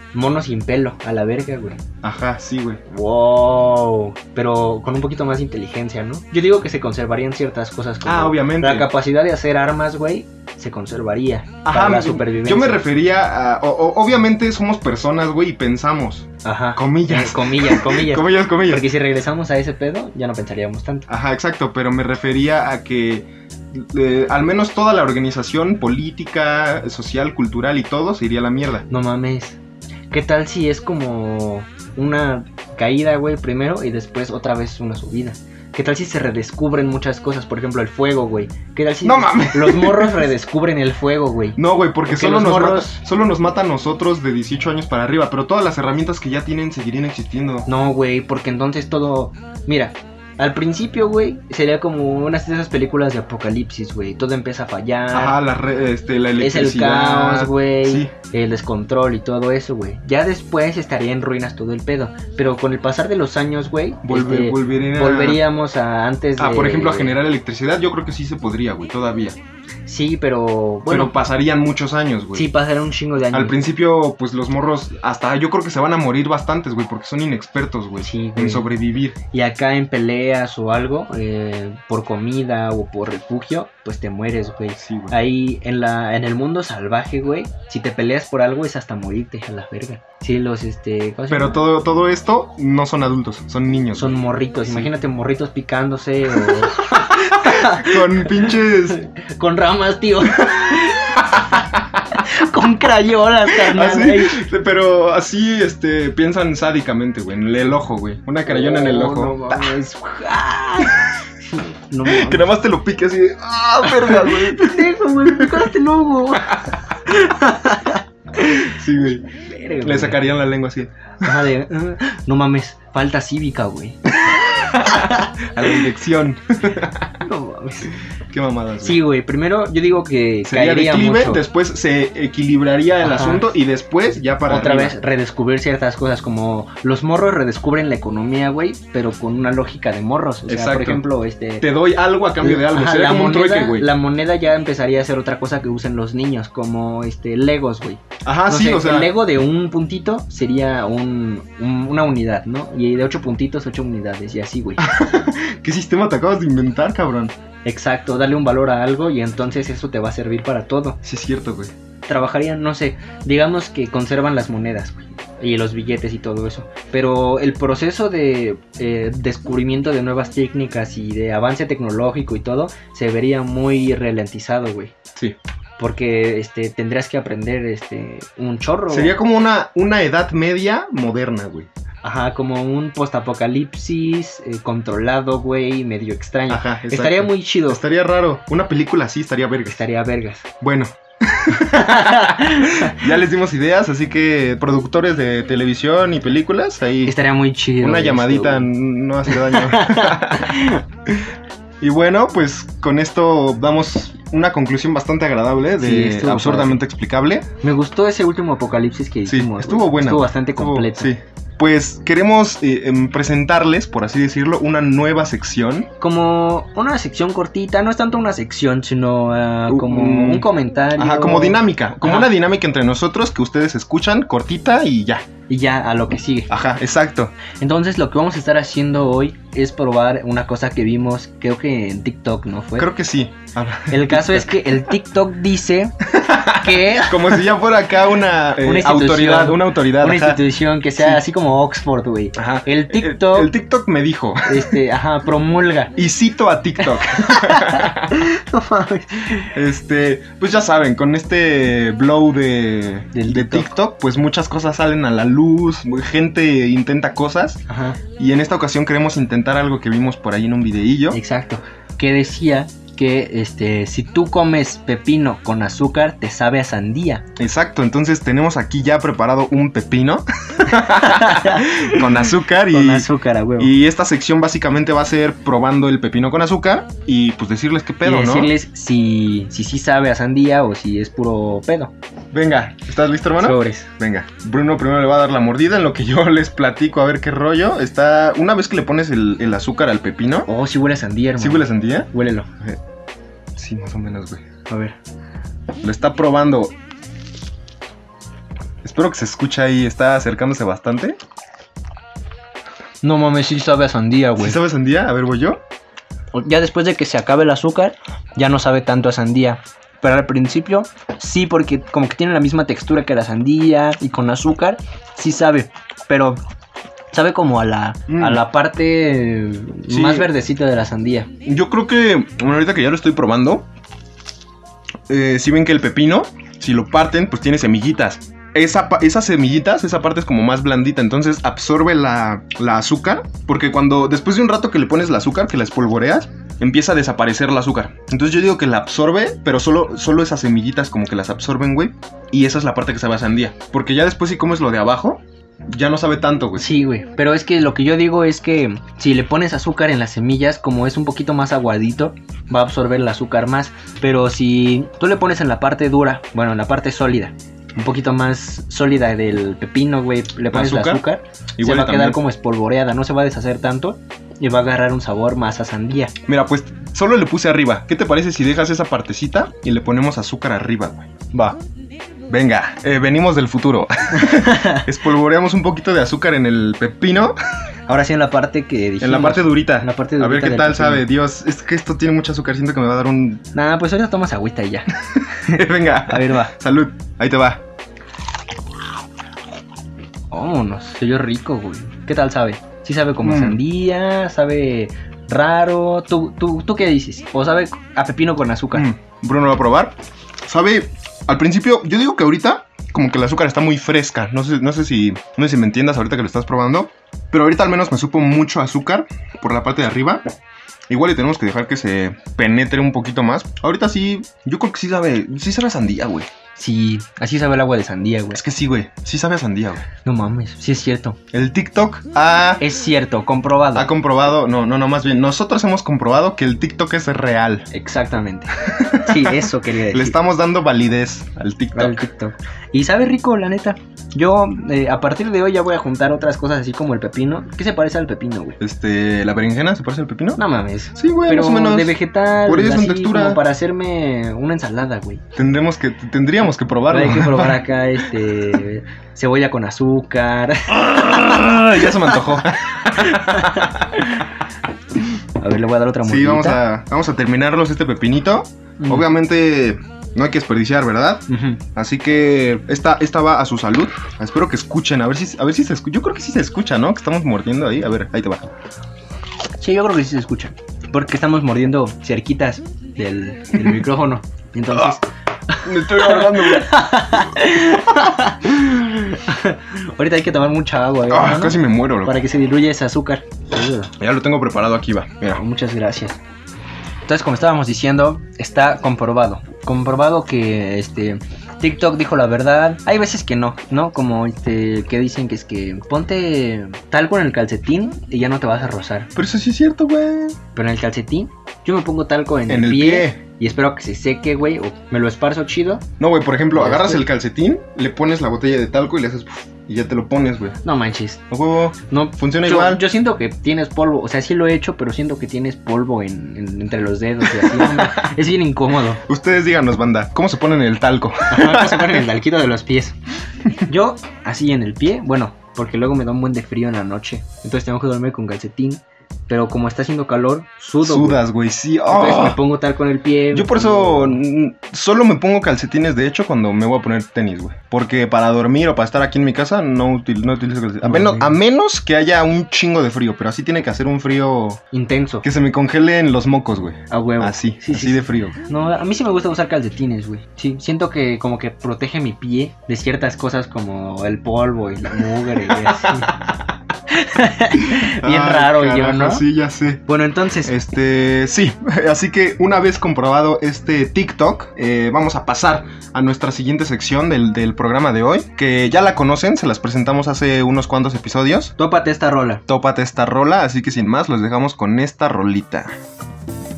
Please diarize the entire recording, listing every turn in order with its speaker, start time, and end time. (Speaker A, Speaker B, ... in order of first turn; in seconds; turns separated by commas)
Speaker A: 0.1-1.8, Speaker B: 2.0-2.8, Speaker A: 2.9-12.8, Speaker B: 8.0-8.9, Speaker B: 11.6-18.9, Speaker A: 16.4-21.1, Speaker B: 21.1-28.9, Speaker A: 28.9-29.6, Speaker A: 30.1-43.0, Speaker B: 39.0-40.2, Speaker B: 41.6-47.7, Speaker A: 47.7-55.4, Speaker B: 55.1-58.1, Speaker A: 56.4-67.2, Speaker B: 64.0-65.4, Speaker B: 66.4-69.4, Speaker A: 69.8-71.1, Speaker B: 70.9-72.5, Speaker A: 72.3-73.6, Speaker B: 73.3-79.2, Speaker A: 78.0-78.7, Speaker A: 79.3-91.6, Speaker B: 84.8-85.1, Speaker B: 91.3-94.1, Speaker A: 93.9-104.4, Speaker B: 96.3-99.0, Speaker B: 100.4-102.0, Speaker B: 103.5-109.8, Speaker A: 108.5-112.5, Speaker B: 110.8-111.2, Speaker B: 112.0-115.7, Speaker A: 113.8-118.8, Speaker B: 118.6-119.3, Speaker A: 119.4-120.2, Speaker B: 119.8-121.4, Speaker A: 121.2-125.3, Speaker B: 124.2-127.1, Speaker A: 127.2-127.9, Speaker B: 128.3-129.0, Speaker A: 128.8-131.4, Speaker B: 130.4-134.9, Speaker A: 133.0-133.4, Speaker A: 134.5-141.6, Speaker B: 140.5-141.0, Speaker B: 141.6-143.9, Speaker A: 142.4-154.8, Speaker B: 148.2-149.1, Speaker B: 154.8-157.3, Speaker A: 157.6-161.0, Speaker B: 161.0-161.7, Speaker A: 162.1-174.9, Speaker A: 175.8-179.2, Speaker B: 178.9-181.7, Speaker A: 182.0-187.8, Speaker B: 186.5-189.8, Speaker A: 189.7-190.4, Speaker B: 190.6-197.1, Speaker A: 191.6-193.0, Speaker A: 197.0-198.7, Speaker B: 197.8-201.3, Speaker A: 199.3-200.8, Speaker B: 201.8-207.5, Speaker A: 205.8-206.8, Speaker A: 207.6-211.1, Speaker B: 209.3-215.9, Speaker A: 216.0-222.3, Speaker B: 219.7-225.2, Speaker A: 225.5-226.5, Speaker B: 226.5-227.3, Speaker A: 227.6-232.9, Speaker B: 232.8-234.7, Speaker A: 233.9-237.4, Speaker B: 236.1-240.4, Speaker A: 238.6-243.5, Speaker B: 242.3-244.8, Speaker A: 244.4-245.9, Speaker B: 245.9-248.2, Speaker A: 246.8-249.5, Speaker B: 249.5-257.6, Speaker A: 253.1-253.7, Speaker A: 257.7-258.0, Speaker B: 258.2-261.2, Speaker A: 261.1-267.2, Speaker B: 267.4-273.1, Speaker A: 270.7-273.7, Speaker B: 273.6-278.5, Speaker A: 278.0-281.9, Speaker B: 282.3-290.5, Speaker A: 283.4-283.9, Speaker A: 290.5-292.5, Speaker B: 291.4-292.1, Speaker B: 293.5-294.4, Speaker A: 294.7-294.9, Speaker B: 295.8-296.7, Speaker B: 298.8-301.2, Speaker A: 303.0-304.6, Speaker B: 304.4-305.6, Speaker A: 306.3-316.4, Speaker A: 317.1-321.3, Speaker B: 318.1-318.4, Speaker B: 319.9-320.3, Speaker B: 321.4-323.6, Speaker B: 325.1-346.7, Speaker A: 346.6-366.1, Speaker B: 360.5-361.0, Speaker B: 361.6-362.2, Speaker B: 366.2-371.6, Speaker B: 372.3-377.3, Speaker A: 374.1-374.9, Speaker A: 377.9-381.0, Speaker B: 379.0-383.4, Speaker A: 383.5-386.5, Speaker B: 385.1-387.6, Speaker A: 390.3-398.9, Speaker B: 393.2-393.6, Speaker B: 398.7-399.9, Speaker B: 400.4-410.2, Speaker B: 410.9-416.3, Speaker A: 416.6-418.4, Speaker B: 418.3-419.8, Speaker A: 420.0-421.2, Speaker B: 421.3-422.6, Speaker A: 422.6-423.9, Speaker B: 423.7-427.7, Speaker A: 427.7-430.1, Speaker B: 428.6-432.1, Speaker A: 431.7-438.6, Speaker B: 438.6-440.4, Speaker A: 440.4-445.2, Speaker B: 440.9-443.4, Speaker B: 445.4-447.6, Speaker A: 446.9-452.4, Speaker B: 450.8-453.9, Speaker A: 452.9-454.3, Speaker A: 455.4-456.6, Speaker B: 456.0-468.5, Speaker A: 458.8-459.1, Speaker A: 461.3-461.6, Speaker A: 469.6-483.9, Speaker B: 475.6-476.9, Speaker B: 481.1-482.2, Speaker B: 484.0-485.4, Speaker A: 485.3-486.2, Speaker A: 487.1-499.1, Speaker B: 499.1-500.4, Speaker A: 500.6-505.8, Speaker B: 502.5-503.2, Speaker B: 506.0-510.6, Speaker A: 506.5-507.0, Speaker A: 510.6-511.2, Speaker B: 511.3-512.8, Speaker A: 511.9-519.0, Speaker B: 517.2-518.1, Speaker B: 519.0-522.0, Speaker A: 521.3-523.0, Speaker A: 523.5-531.2, Speaker B: 530.8-532.4, Speaker A: 531.9-534.2, Speaker B: 533.3-544.6, Speaker A: 540.8-541.4, Speaker A: 544.7-545.2, Speaker B: 545.2-548.4, Speaker A: 546.9-556.1, Speaker B: 555.4-556.5, Speaker A: 556.9-559.2, Speaker B: 557.6-559.8, Speaker A: 559.9-560.5, Speaker B: 560.4-571.5, Speaker A: 571.6-572.4, Speaker B: 572.5-575.7